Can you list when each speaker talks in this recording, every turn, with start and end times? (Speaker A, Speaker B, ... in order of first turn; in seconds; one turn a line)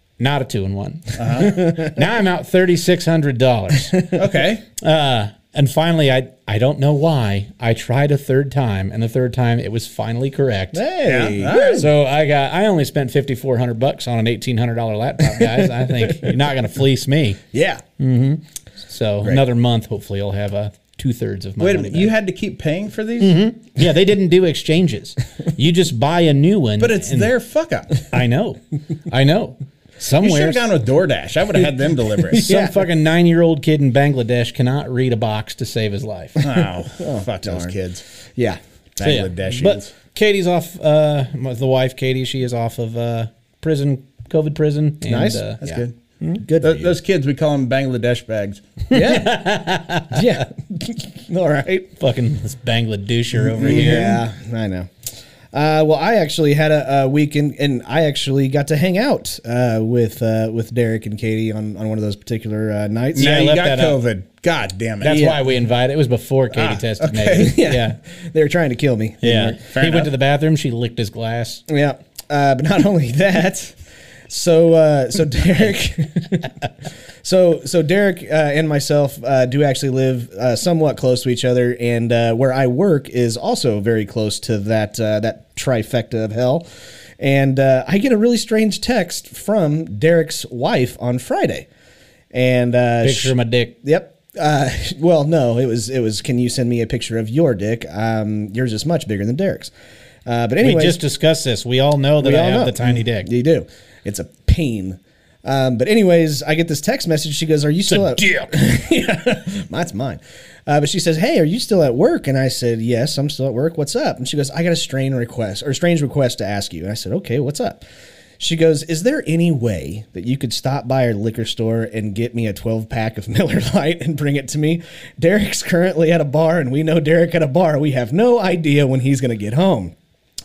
Speaker A: 0.2-4.0
Speaker B: 1.1-1.5
Speaker C: 1.4-2.0
Speaker B: 4.1-4.6
Speaker A: 4.8-10.8
Speaker C: 10.7-11.9
Speaker B: 11.0-11.9
Speaker A: 11.7-17.4
Speaker C: 15.4-16.3
Speaker C: 17.5-17.8
Speaker A: 18.0-22.1
Speaker B: 21.6-23.4
Speaker A: 23.2-27.3
Speaker B: 26.8-28.0
Speaker A: 28.1-30.6
Speaker B: 30.2-32.5
Speaker C: 32.3-32.8
Speaker A: 32.3-36.4
Speaker B: 36.4-38.0
Speaker C: 36.4-37.8
Speaker B: 39.0-39.9
Speaker A: 39.0-45.6
Speaker C: 45.0-45.8
Speaker B: 45.6-45.9
Speaker C: 46.4-46.9
Speaker B: 46.6-48.6
Speaker C: 48.9-49.4
Speaker A: 48.9-50.4
Speaker C: 50.1-51.9
Speaker A: 52.0-54.2
Speaker C: 53.5-54.9
Speaker B: 53.6-54.2
Speaker C: 55.5-63.4
Speaker A: 63.1-64.0
Speaker B: 63.1-65.3
Speaker A: 65.0-68.0
Speaker C: 65.0-65.4
Speaker B: 66.5-67.6
Speaker C: 67.3-69.7
Speaker A: 69.2-71.6
Speaker B: 69.7-70.1
Speaker C: 71.7-73.8
Speaker C: 74.3-86.6
Speaker C: 87.2-91.7
Speaker C: 92.3-99.7
Speaker A: 93.0-93.8
Speaker C: 100.2-101.0
Speaker A: 100.6-103.3
Speaker C: 102.2-117.8
Speaker A: 107.9-108.5
Speaker C: 118.4-129.9